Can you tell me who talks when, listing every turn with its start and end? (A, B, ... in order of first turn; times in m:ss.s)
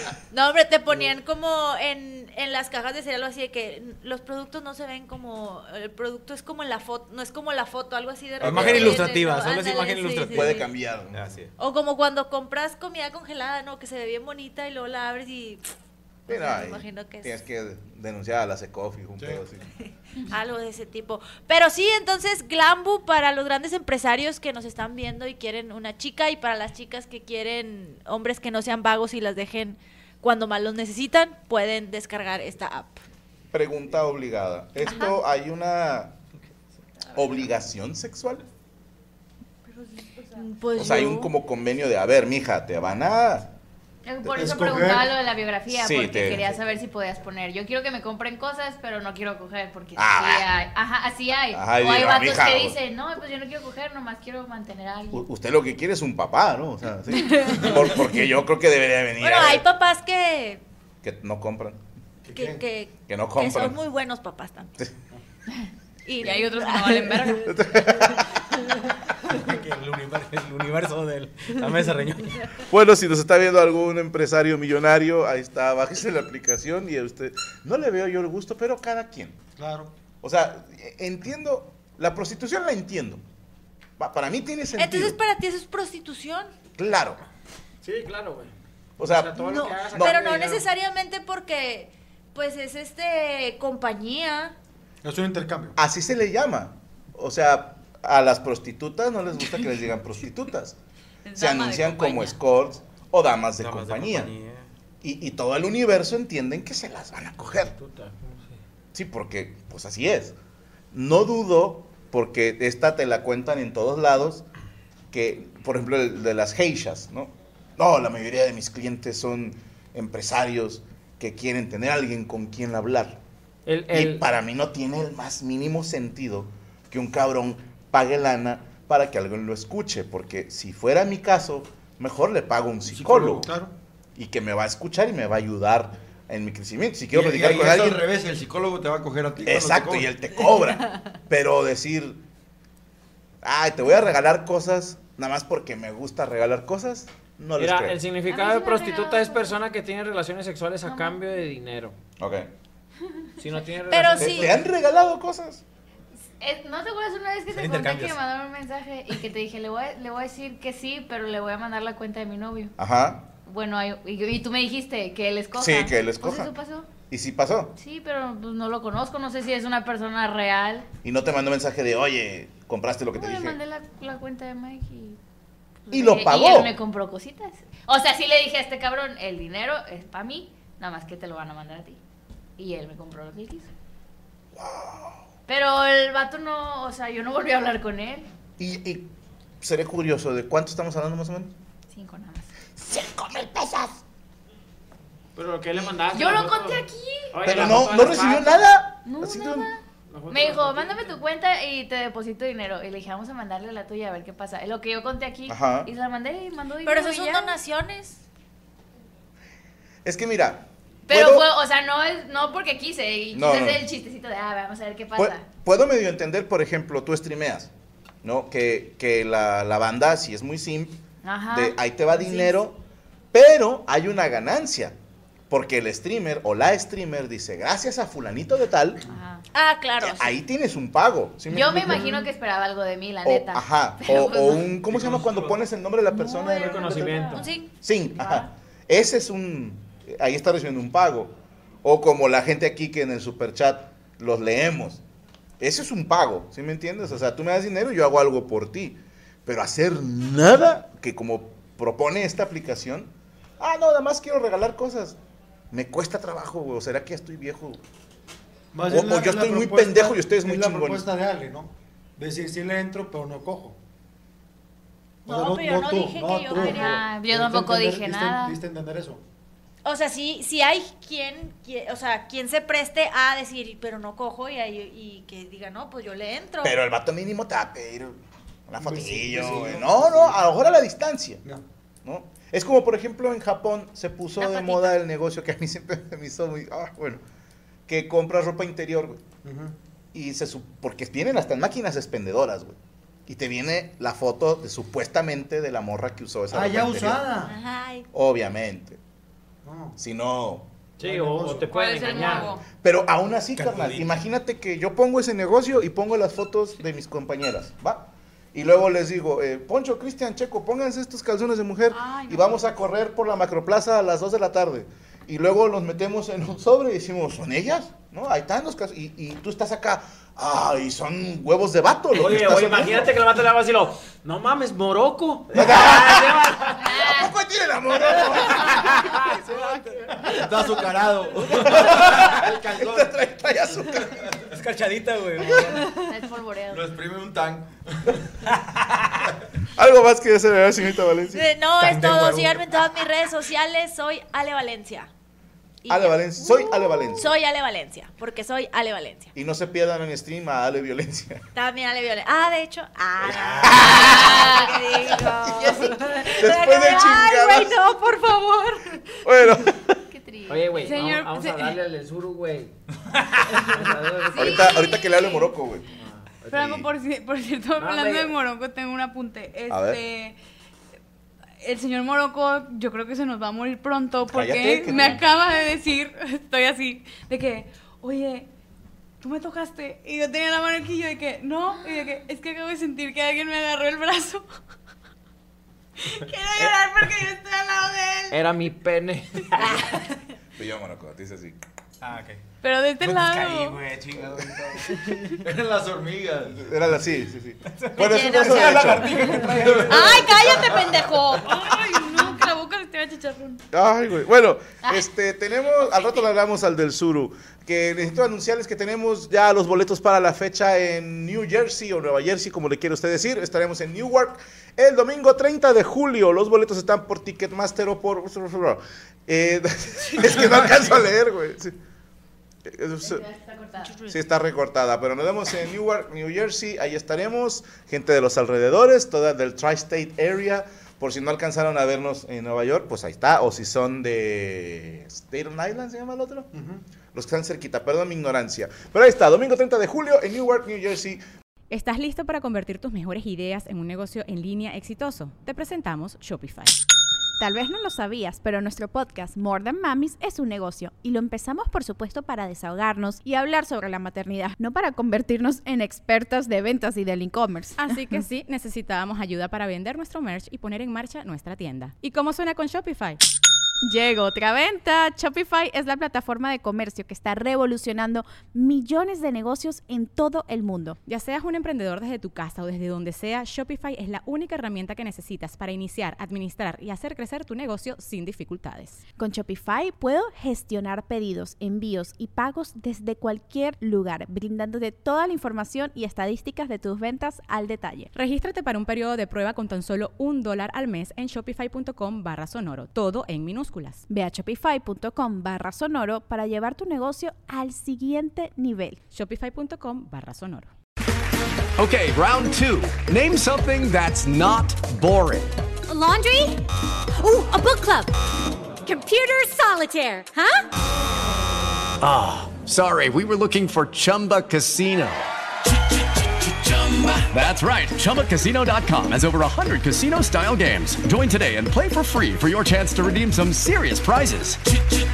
0:00.3-0:10.7 A
0:08.4-0:09.1 B
0:08.4-0:11.5 C
0:10.3-0:11.3 B
0:11.6-0:15.7 A
0:16.3-0:17.3 A
0:16.3-0:19.7 B
0:19.8-0:33.0 A
0:33.5-0:36.1 B
0:34.8-0:35.1 A
0:37.1-0:38.4 B
0:39.7-0:40.4 D
0:40.3-0:41.3 A
0:40.7-0:43.5 B
0:44.0-0:55.3 E
0:44.3-0:45.1 F
0:45.7-0:46.5 B
0:50.0-0:50.5 B
0:51.5-0:52.8 B
0:55.1-0:59.6 B
0:57.4-0:57.7 E
0:59.2-1:00.6 A
1:01.0-1:01.8 B
1:02.2-1:02.6 F
1:02.3-1:04.8 A
1:03.1-1:03.8 B
1:06.0-1:07.5 A
1:06.2-1:07.6 D
1:07.4-1:08.3 B
1:09.3-1:12.4 C
1:12.7-1:19.4 B
1:19.6-1:19.9 F
1:20.2-1:23.2 B
1:24.0-1:25.2 B
1:24.8-1:26.5 A
1:26.8-1:27.2 B
1:27.8-1:30.6 G
1:29.0-1:30.4 B
1:29.4-1:34.5 A
1:35.0-1:35.8 F
1:35.8-1:40.8 B
1:41.2-1:42.4 D
1:41.3-1:44.3 B
1:43.6-1:44.7 C
1:45.0-1:47.7 B
1:47.4-1:48.6 G
1:48.9-1:50.3 B
1:50.9-1:54.4 B
1:55.1-2:03.2 B
2:03.6-2:04.2 G
2:03.9-2:13.4 B
2:12.8-2:13.4 H
2:13.4-2:13.7 F
2:14.2-2:18.0 B
2:17.1-2:20.1 H
2:19.4-2:22.2 B
2:23.4-2:28.0 B
2:27.6-2:32.0 G
2:28.3-2:29.6 E
2:30.8-2:31.2 E
2:32.2-2:32.5 B
2:33.4-2:34.6 G
2:33.9-2:34.5 A
2:34.2-2:35.6 B
2:36.4-2:42.7 E
2:37.5-2:38.2 C
2:42.8-2:43.2 B
2:43.4-2:46.9 E
2:45.5-2:46.5 B
2:47.1-2:47.7 B
2:47.8-2:50.9 E
2:51.0-2:53.6 B
2:53.2-2:55.2 E
2:55.8-3:02.0 E
2:55.9-2:56.7 B
3:02.6-3:03.7 E
3:04.5-3:05.2 B
3:05.5-3:08.3 E
3:08.6-3:09.1 B
3:09.6-3:11.5 B
3:11.9-3:12.5 E
3:12.8-3:14.0 B
3:15.3-3:18.7 G
3:16.1-3:17.6 E
3:17.4-3:19.7 B
3:19.0-3:27.5 E
3:20.1-3:21.2 G
3:25.5-3:25.9 B
3:26.8-3:28.2 A
3:30.0-3:31.5 B
3:31.1-3:35.4 E
3:33.3-3:33.9 B
3:35.2-3:37.7 B
3:38.2-3:41.0 B
3:41.2-3:42.6 E
3:41.5-3:42.8 B
3:43.3-3:45.0 B
3:45.5-3:49.0 B
3:49.1-3:49.4 E
3:49.5-3:50.3 A
3:50.0-3:52.2 B
3:51.5-3:54.7 E
3:53.2-4:05.0 B
3:54.9-3:55.7 C
3:56.1-3:57.5 E
3:56.5-3:57.5 G
3:57.3-3:57.7 A
3:58.1-3:58.5 E
4:05.6-4:15.2 B
4:15.7-4:17.8 B
4:18.7-4:23.8 F
4:18.9-4:21.0 B
4:25.2-4:27.0 A
4:25.2-4:29.2 F
4:26.5-4:28.6 E
4:29.8-4:36.8 A
4:36.6-4:41.4 B
4:38.8-4:40.4 F
4:42.0-4:47.2 B
4:44.5-4:44.8 E
4:47.9-4:49.2 B
4:49.4-4:49.7 F
4:50.1-4:57.3 B
4:56.5-4:57.6 F
4:57.4-4:58.0 A
4:58.1-4:59.0 B
4:59.6-5:00.0 F
5:00.0-5:00.7 B
5:01.0-5:01.8 F
5:01.0-5:02.6 G
5:01.7-5:02.6 D
5:02.7-5:23.2 B
5:03.6-5:04.1 C
5:11.9-5:12.7 D
5:22.1-5:26.9 G
5:25.5-5:29.2 B
5:26.8-5:27.3 E
5:28.3-5:29.2 G
5:29.5-5:30.2 C
5:30.3-5:33.2 H
5:31.5-5:34.3 B
5:33.8-5:34.5 H
5:34.5-5:35.9 C
5:35.4-5:36.9 E
5:36.7-5:38.2 H
5:38.5-5:39.2 C
5:39.8-5:41.5 B
5:41.3-5:45.1 A
5:41.8-5:42.7 C
5:45.8-5:46.2 A
5:45.9-5:47.3 B
5:46.4-5:47.2 E
5:47.1-5:49.3 A
5:49.3-5:51.4 B
5:51.5-5:59.5 A
5:53.2-5:57.8 B
5:53.8-5:56.4 E
5:59.2-6:00.0 B
6:00.1-6:01.0 E
6:00.5-6:02.7 G
6:00.8-6:01.8 D
6:03.5-6:04.7 G
6:04.3-6:05.5 E
6:04.3-6:06.0 B
6:06.5-6:06.9 B
6:06.5-6:10.4 D
6:07.8-6:08.3 G
6:09.7-6:10.0 B
6:11.6-6:18.5 D
6:14.2-6:15.3 B
6:19.2-6:24.5 D
6:26.0-6:28.4 D
6:28.3-6:30.0 G
6:30.6-6:31.6 B
6:32.0-6:32.4 C
6:32.6-6:33.8 D
6:33.0-6:35.0 C
6:34.9-6:35.4 D
6:35.4-6:36.7 H
6:36.6-6:39.7 B
6:37.6-6:40.2 C
6:38.0-6:39.1 A
6:39.4-6:41.0 H
6:39.9-6:41.4 A
6:40.1-6:43.6 D
6:43.7-7:01.8 B
7:02.6-7:03.2 B
7:03.0-7:03.9 E
7:03.8-7:04.2 A
7:04.1-7:16.5 B
7:16.5-7:16.8 F
7:17.1-7:21.2 B
7:21.7-7:26.8 I
7:27.4-7:38.2 J
7:37.8-7:43.2 I
7:43.8-7:51.0 J
7:51.0-7:59.0 I
7:59.2-8:08.1 J
8:08.1-8:14.0 I
8:14.1-8:19.0 J
8:19.1-8:20.7 I
8:21.8-8:25.5 K
8:25.9-8:28.1 L
8:28.8-8:30.6 L
8:32.0-8:35.2 K
8:36.8-8:44.6 K